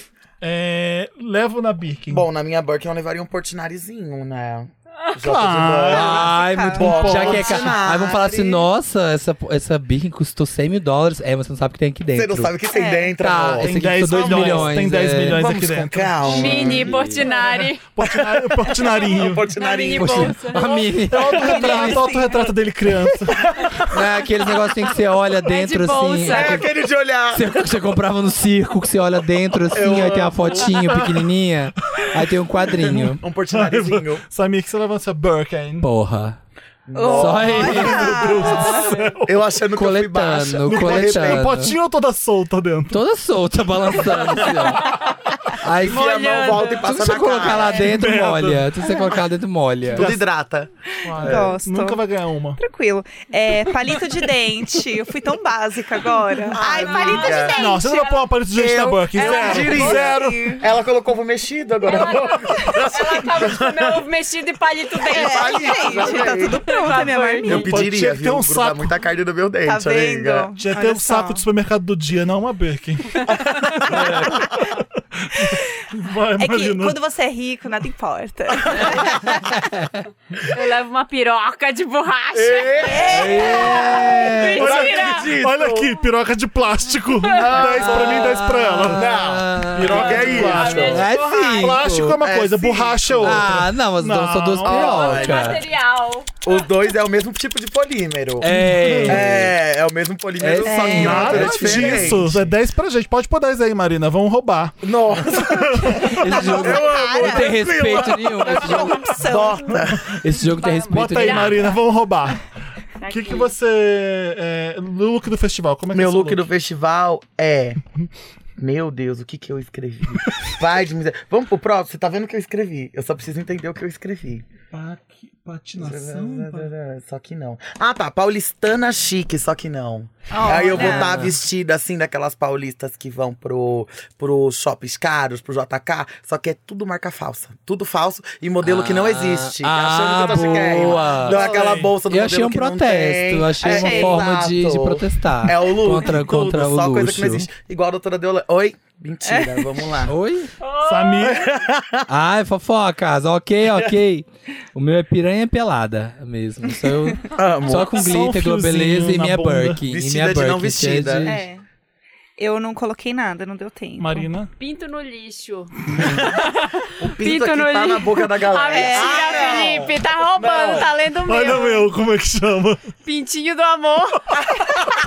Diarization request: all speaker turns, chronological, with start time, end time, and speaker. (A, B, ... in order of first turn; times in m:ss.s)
0:00.4-0:02.3 A
0:02.1-0:08.7 B
0:05.2-0:07.6 A
0:05.8-0:12.5 C
0:06.4-0:07.1 D
0:12.2-0:14.8 B
0:12.7-0:13.1 D
0:13.2-0:15.5 C
0:13.6-0:19.5 A
0:15.3-0:17.0 B
0:16.2-0:17.8 E
0:16.4-0:17.2 C
0:18.0-0:20.4 B
0:19.4-0:21.0 E
0:20.0-0:22.0 C
0:21.1-0:23.7 A
0:21.3-0:22.5 D
0:23.2-0:24.0 B
0:23.9-0:26.7 C
0:25.4-0:26.7 E
0:26.2-0:27.5 B
0:27.3-0:33.2 C
0:29.7-0:31.0 B
0:32.8-0:34.2 B
0:33.5-0:35.9 A
0:35.8-0:36.4 C
0:36.9-0:37.9 B
0:36.9-0:38.9 D
0:37.1-0:38.4 C
0:37.3-0:39.5 A
0:38.5-0:39.1 E
0:39.2-0:41.4 B
0:39.8-0:41.7 C
0:40.6-0:43.0 A
0:42.9-0:45.0 C
0:45.6-0:50.1 C
0:45.6-0:47.9 B
0:45.9-0:47.5 E
0:47.7-0:48.8 A
0:49.9-0:51.6 B
0:49.9-0:50.3 A
0:51.0-0:52.6 A
0:51.1-0:52.0 D
0:52.6-0:58.1 D
0:56.6-0:57.6 B
0:56.7-0:58.2 E
0:57.3-1:00.6 A
0:58.5-1:04.0 B
0:59.2-0:59.8 E
0:59.2-1:00.7 D
1:01.8-1:07.7 E
1:02.7-1:03.1 D
1:05.1-1:07.8 D
1:05.1-1:06.8 B
1:07.4-1:09.0 A
1:07.5-1:10.5 B
1:09.6-1:11.4 D
1:10.6-1:17.0 A
1:13.8-1:14.0 B
1:13.9-1:14.5 C
1:14.3-1:14.6 D
1:16.4-1:19.6 D
1:19.3-1:19.9 C
1:20.5-1:25.4 E
1:22.3-1:23.8 B
1:22.9-1:24.0 D
1:23.1-1:24.8 C
1:24.4-1:25.9 B
1:24.6-1:35.1 A
1:27.2-1:28.2 E
1:27.6-1:32.2 C
1:29.9-1:31.8 E
1:29.9-1:31.0 B
1:32.2-1:33.6 B
1:33.2-1:35.6 C
1:34.6-1:35.6 B
1:34.9-1:36.4 E
1:36.4-1:38.5 B
1:38.4-1:39.6 C
1:38.4-1:39.3 A
1:39.0-1:42.5 B
1:40.4-1:42.2 C
1:40.6-1:42.1 D
1:40.9-1:46.6 A
1:44.8-1:50.1 B
1:46.0-1:49.2 C
1:46.2-1:49.9 D
1:49.7-1:50.2 A
1:50.1-1:51.7 C
1:50.6-1:51.8 E
1:50.9-1:52.4 A
1:53.0-1:53.5 E
1:53.1-1:56.5 A
1:55.9-1:57.8 B
1:58.6-2:04.5 B
2:04.7-2:06.7 A
2:05.8-2:30.1 B
2:10.3-2:11.3 D
2:10.6-2:11.4 C
2:18.6-2:21.4 C
2:21.2-2:22.0 A
2:22.1-2:27.5 C
2:23.6-2:24.2 D
2:29.2-2:29.9 D
2:30.1-2:30.5 C
2:30.6-2:31.4 E
2:30.8-2:31.5 A
2:31.2-2:32.1 B
2:32.1-2:41.4 C
2:37.3-2:38.0 B
2:37.9-2:39.8 A
2:39.9-2:41.4 B
2:41.2-2:41.6 D
2:42.4-2:44.3 D
2:44.0-2:44.5 A
2:44.6-2:51.9 E
2:45.9-2:50.9 B
2:48.6-2:49.8 D
2:51.2-2:52.8 A
2:53.0-2:54.4 E